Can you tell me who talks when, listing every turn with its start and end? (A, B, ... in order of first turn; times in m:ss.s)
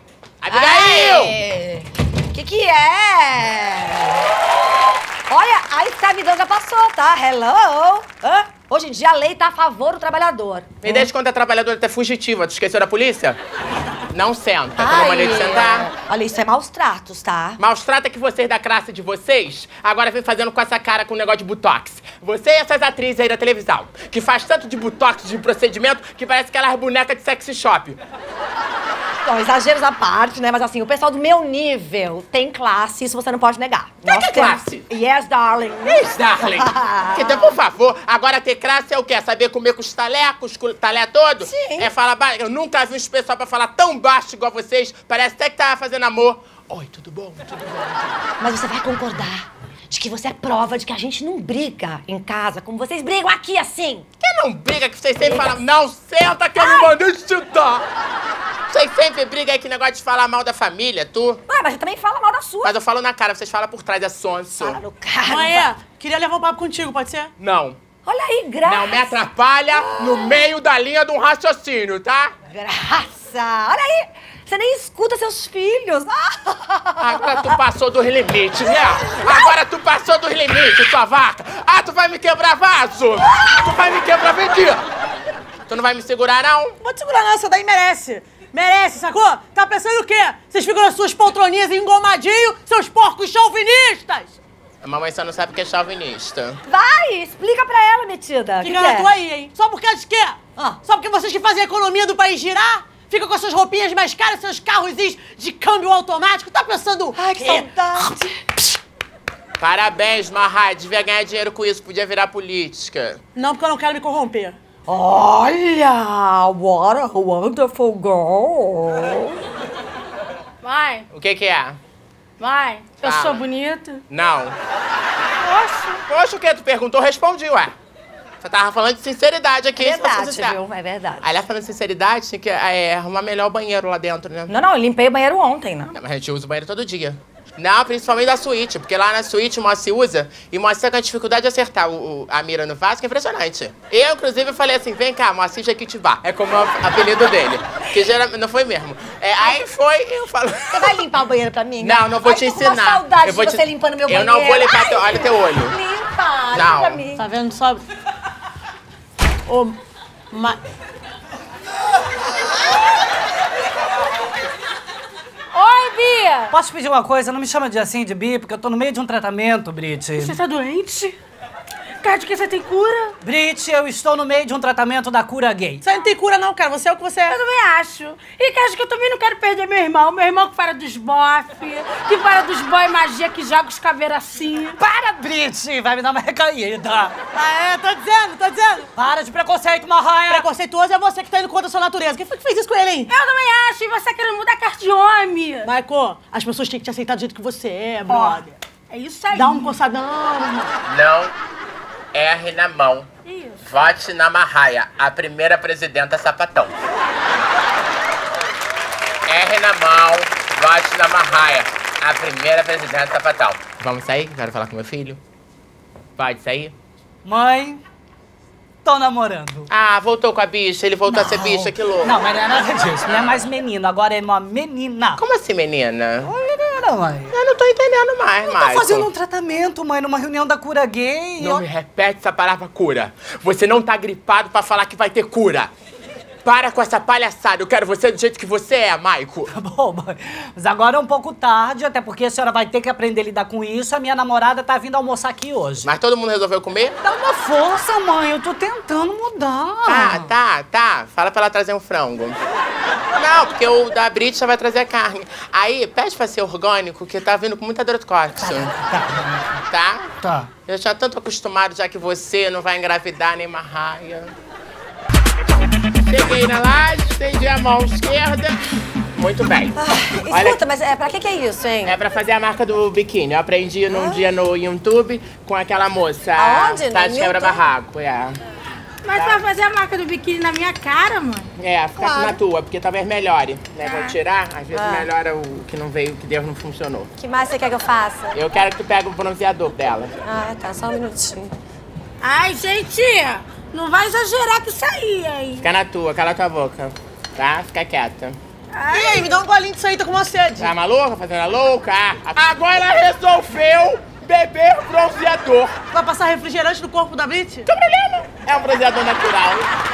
0:00.4-0:01.4 A
0:00.5-0:04.2 B
0:05.3-0:11.1 B
0:10.8-0:13.4 A
0:14.1-0:15.9 A
0:14.8-0:17.6 B
0:17.6-0:28.0 A
0:29.2-0:37.5 B
0:34.0-0:34.9 A
0:35.8-0:47.7 A
0:41.4-0:41.9 B
0:48.4-0:54.1 B
0:54.2-0:57.8 A
0:55.2-0:55.5 B
0:56.6-0:56.9 B
0:58.7-1:01.4 A
1:01.5-1:02.8 B
1:02.6-1:04.8 A
1:04.6-1:05.7 B
1:05.3-1:07.3 C
1:07.4-1:07.8 A
1:08.0-1:09.2 B
1:08.6-1:12.3 A
1:09.7-1:10.4 B
1:12.5-1:17.4 B
1:17.0-1:24.8 A
1:18.8-1:19.5 B
1:25.7-1:26.8 A
1:26.8-1:34.4 C
1:34.8-1:36.6 A
1:36.7-1:39.1 B
1:38.6-1:47.7 C
1:47.2-1:48.3 B
1:49.6-1:53.2 A
1:53.4-1:54.6 C
1:54.9-1:59.4 B
2:00.6-2:01.1 D
2:01.1-2:01.8 A
2:02.4-2:04.0 D
2:03.0-2:03.4 A
2:04.1-2:04.6 A
2:05.5-2:06.0 D
2:06.1-2:07.7 A
2:08.4-2:10.6 A
2:09.8-2:11.3 B
2:11.2-2:14.5 A
2:14.5-2:15.9 B
2:15.9-2:31.0 A
2:30.7-2:37.3 B
2:31.8-2:35.8 A
2:36.5-2:37.0 A
2:37.1-2:37.8 C
2:39.5-2:39.8 C
2:40.3-2:40.6 C
2:45.5-2:46.5 D
2:46.5-2:50.4 E
2:50.2-2:51.2 D
2:52.0-2:53.1 D
2:53.2-2:55.8 E
2:55.8-2:57.4 C
2:57.3-3:04.8 D
3:04.8-3:07.2 E
3:07.3-3:08.9 C
3:09.0-3:10.4 E
3:10.3-3:13.1 C
3:13.1-3:15.7 D
3:15.6-3:18.5 C
3:18.1-3:19.8 D
3:19.3-3:20.7 C
3:20.9-3:21.3 A
3:22.1-3:23.1 A
3:23.3-3:23.6 D
3:23.6-3:26.8 A
3:29.3-3:35.2 A
3:36.2-3:36.7 A
3:37.2-3:37.8 E
3:38.8-3:39.7 E
3:39.7-3:42.2 A
3:41.1-3:45.2 E
3:45.2-3:46.3 A
3:46.2-3:47.3 E
3:47.3-3:49.1 A
3:48.4-3:51.6 E
3:51.4-3:55.7 A
3:56.4-3:59.6 A
3:59.5-4:05.9 E
4:05.8-4:07.0 A
4:07.0-4:10.3 E
4:09.9-4:12.4 A
4:13.2-4:18.7 A
4:18.4-4:19.5 E
4:19.7-4:20.1 A
4:20.2-4:20.5 E
4:20.6-4:24.3 A
4:26.0-4:28.6 A
4:29.2-4:29.8 A
4:29.8-4:32.0 B
4:30.3-4:30.6 A
4:31.8-4:38.4 A
4:33.9-4:34.2 B
4:36.4-4:37.7 B
4:39.0-4:41.5 D
4:39.2-4:39.4 A
4:41.6-4:47.1 A
4:42.0-4:42.3 B
4:43.8-4:44.2 D
4:44.7-4:45.1 B
4:47.2-4:48.4 B
4:48.4-4:50.1 A
4:50.2-4:51.5 B
4:52.2-4:55.6 D
4:55.6-4:58.4 A
4:58.7-4:59.4 D
4:58.9-5:00.7 C
5:00.6-5:05.7 A
5:05.9-5:07.6 C
5:07.7-5:09.7 A